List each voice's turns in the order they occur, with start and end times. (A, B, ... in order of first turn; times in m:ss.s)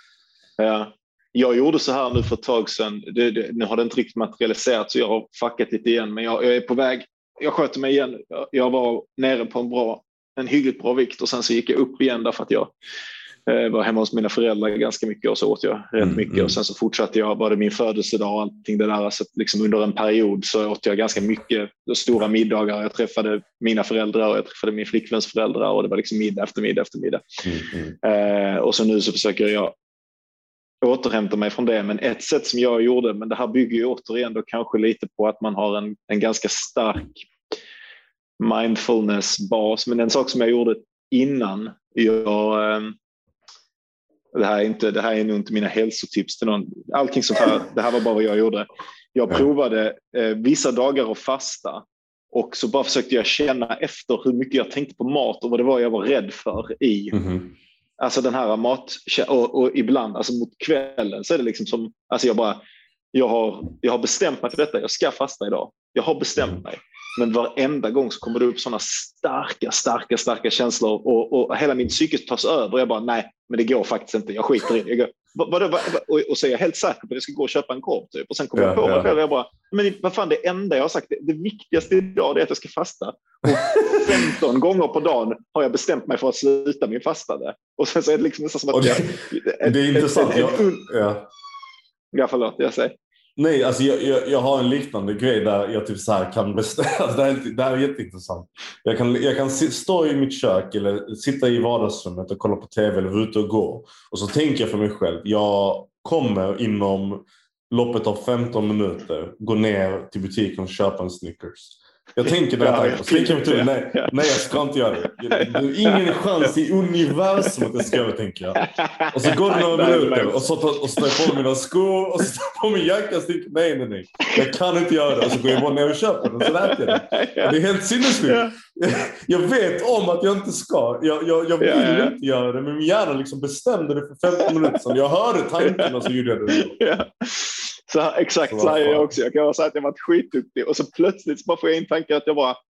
0:00.6-0:12.7 A
0:13.4-0:27.2 A
0:16.0-0:16.6 B
0:27.4-0:28.0 B
0:28.0-0:29.7 A
0:30.8-0:37.3 A
0:38.4-0:43.0 A
0:44.3-0:57.2 A
0:57.1-0:57.5 B
0:58.0-1:02.6 A
1:03.1-1:30.8 A
1:18.6-1:19.1 B
1:28.7-1:31.3 B
1:32.1-1:33.0 A
1:33.4-2:16.8 B
1:52.6-1:54.4 A
1:55.3-1:56.5 A
1:58.6-2:00.4 A
2:01.0-2:01.3 A
2:05.2-2:05.5 A
2:06.4-2:07.6 A
2:08.2-2:08.5 A
2:11.6-2:12.1 A
2:16.5-2:22.6 A
2:18.5-2:19.1 B